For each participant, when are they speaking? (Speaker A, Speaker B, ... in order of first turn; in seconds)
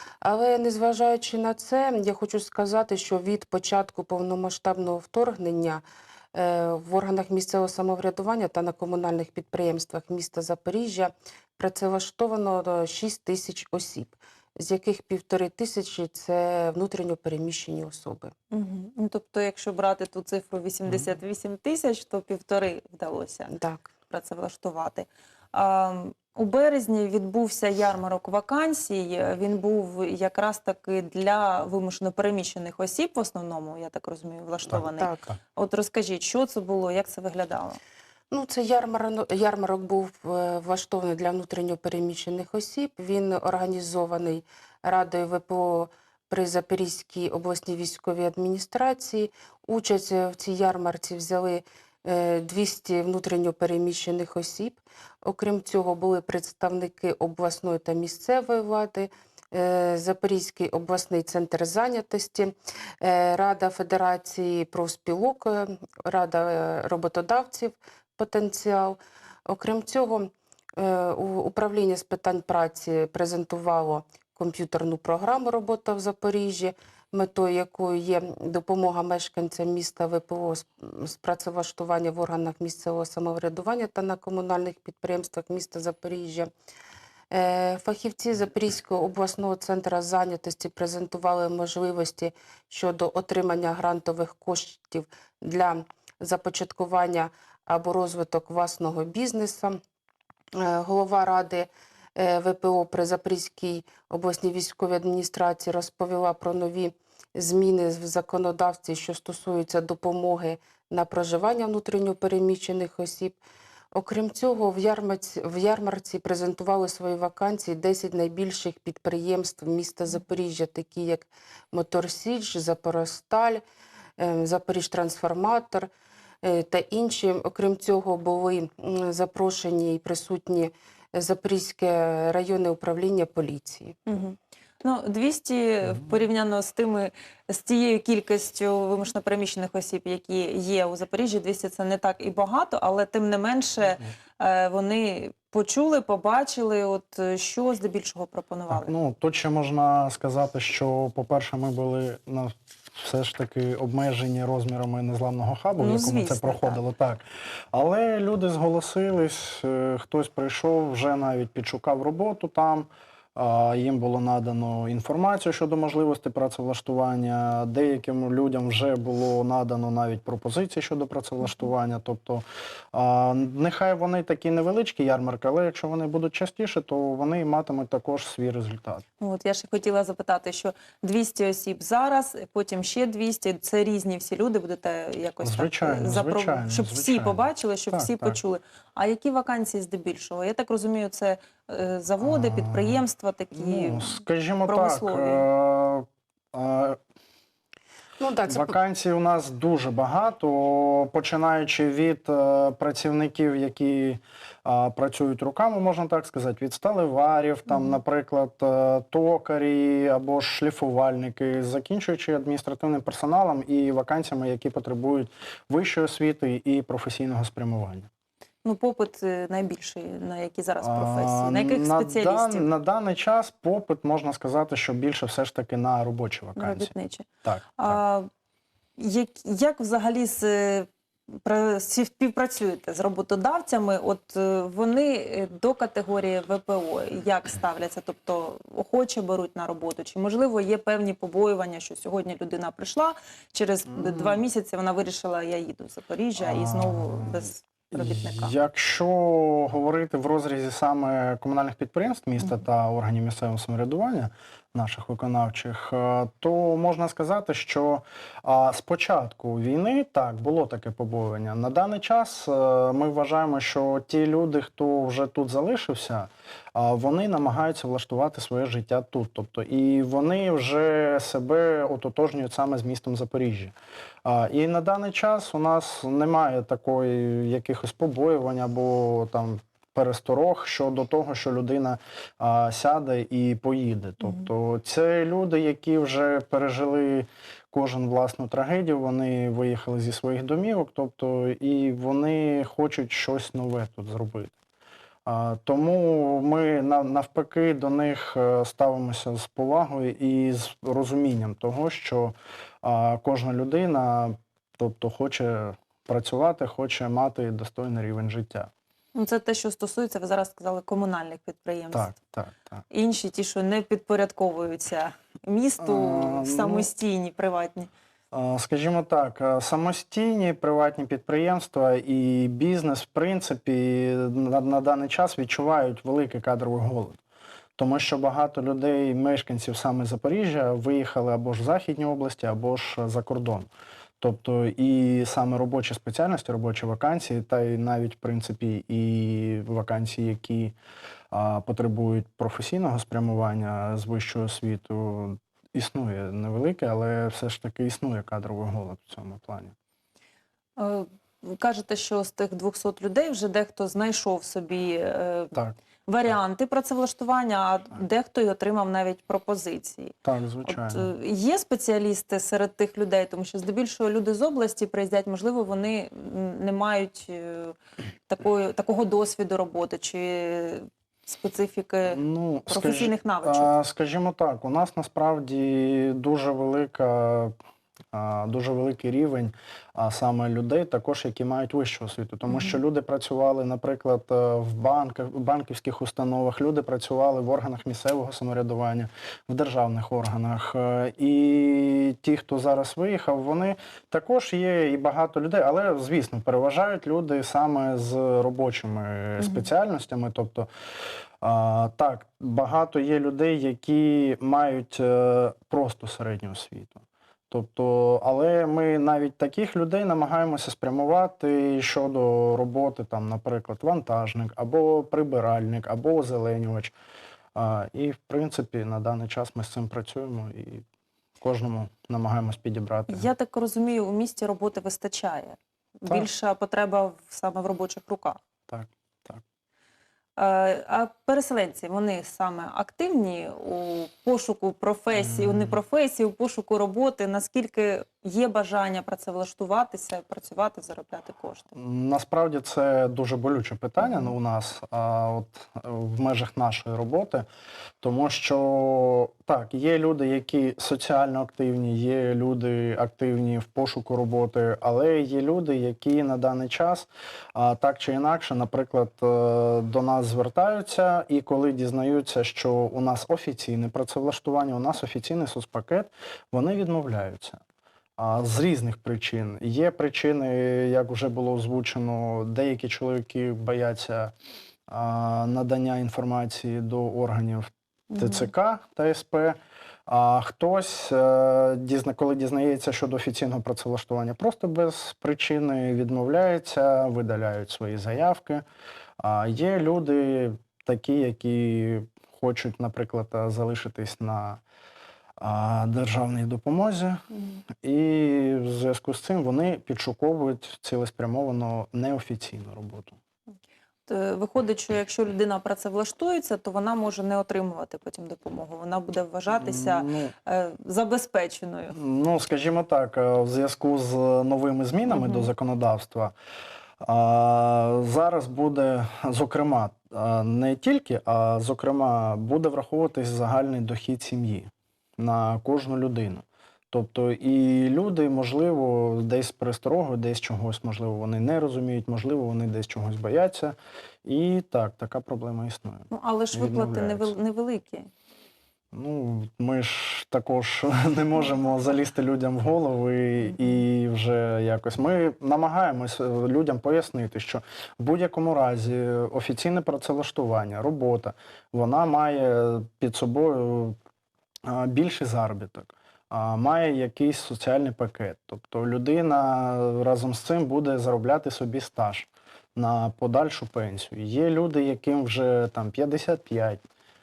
Speaker A: 0.2-18.3, 23.5-23.9, 34.9-35.3, 38.3-86.5, 87.3-99.8, 100.5-113.4, 113.9-123.6, 124.2-125.9, 126.4-134.0, 198.2-198.7
Speaker B: 18.5-23.5, 24.1-37.8, 134.1-148.9, 155.8-156.8, 179.2-195.4, 218.6-222.7, 226.6-228.3, 229.0-230.9, 231.4-248.5, 284.2-284.5, 309.1-312.1, 312.9-317.9, 350.8-355.5, 356.1-360.1, 360.6-367.8, 368.3-373.7, 382.4-382.8, 399.4-399.7, 423.1-428.4, 430.4-441.7, 444.0-444.3, 478.1-478.5, 504.1-511.9, 515.1-515.5, 536.1-538.1
Speaker C: 148.7-179.0, 185.4-188.4, 192.2-193.0, 193.5-197.0, 198.5-218.1, 220.8-226.9, 227.4-228.0, 243.9-244.4, 246.4-273.7, 274.2-294.5, 295.2-308.7, 311.9-312.8, 315.8-316.9, 318.3-327.2, 327.8-333.7, 334.2-340.7, 341.3-349.7, 360.2-361.1, 372.1-377.5, 378.1-400.7, 401.4-416.9, 417.5-420.9, 421.4-423.3, 428.7-429.4, 435.1-435.8, 441.7-447.4, 448.0-467.6, 468.2-474.3, 474.9-488.6, 489.2-494.6, 495.4-497.2, 497.8-503.2, 509.6-510.3, 511.9-516.3, 517.0-537.3, 538.9-554.0, 554.6-566.8